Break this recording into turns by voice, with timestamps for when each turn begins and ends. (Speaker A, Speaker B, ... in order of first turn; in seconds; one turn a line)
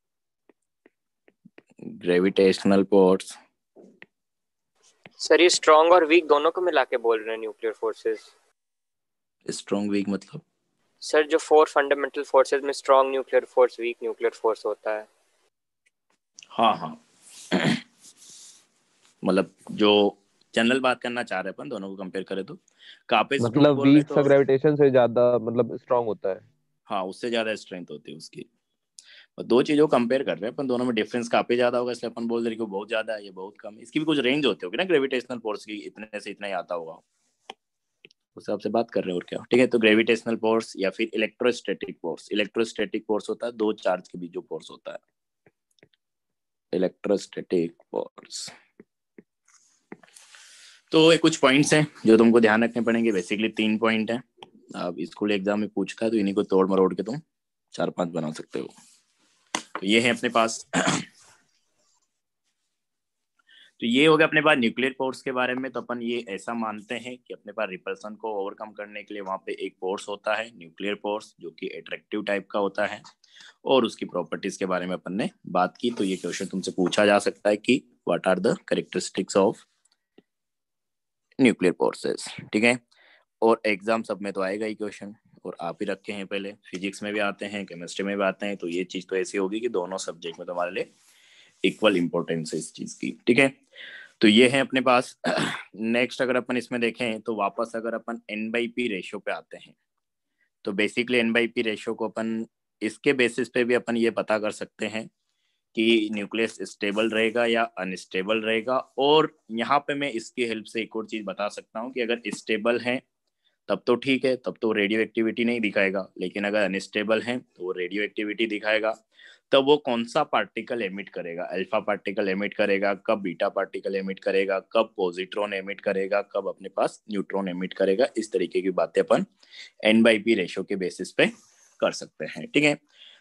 Speaker A: 1.8-3.3
Speaker B: 5.2-8.3
Speaker A: 9.5-10.4
Speaker B: 11.0-15.1
Speaker A: 16.5-17.0
Speaker A: 17.5-17.8
Speaker A: 19.2-24.3
Speaker C: 23.4-26.5
Speaker A: 26.9-28.4
Speaker A: 29.4-37.0
Speaker A: 38.4-45.0
Speaker A: 46.7-48.5
Speaker A: 50.9-54.2
Speaker A: 54.7-57.2
Speaker A: 57.7-58.7
Speaker A: 59.8-61.0
Speaker A: 63.8-73.0
Speaker A: 73.6-79.7
Speaker A: 81.4-82.8
Speaker A: 83.4-90.9
Speaker A: 91.6-93.5
Speaker A: 94.2-99.8
Speaker A: 100.6-105.1
Speaker A: 105.7-113.0
Speaker A: 113.7-118.9
Speaker A: 119.5-129.2
Speaker A: 129.8-132.8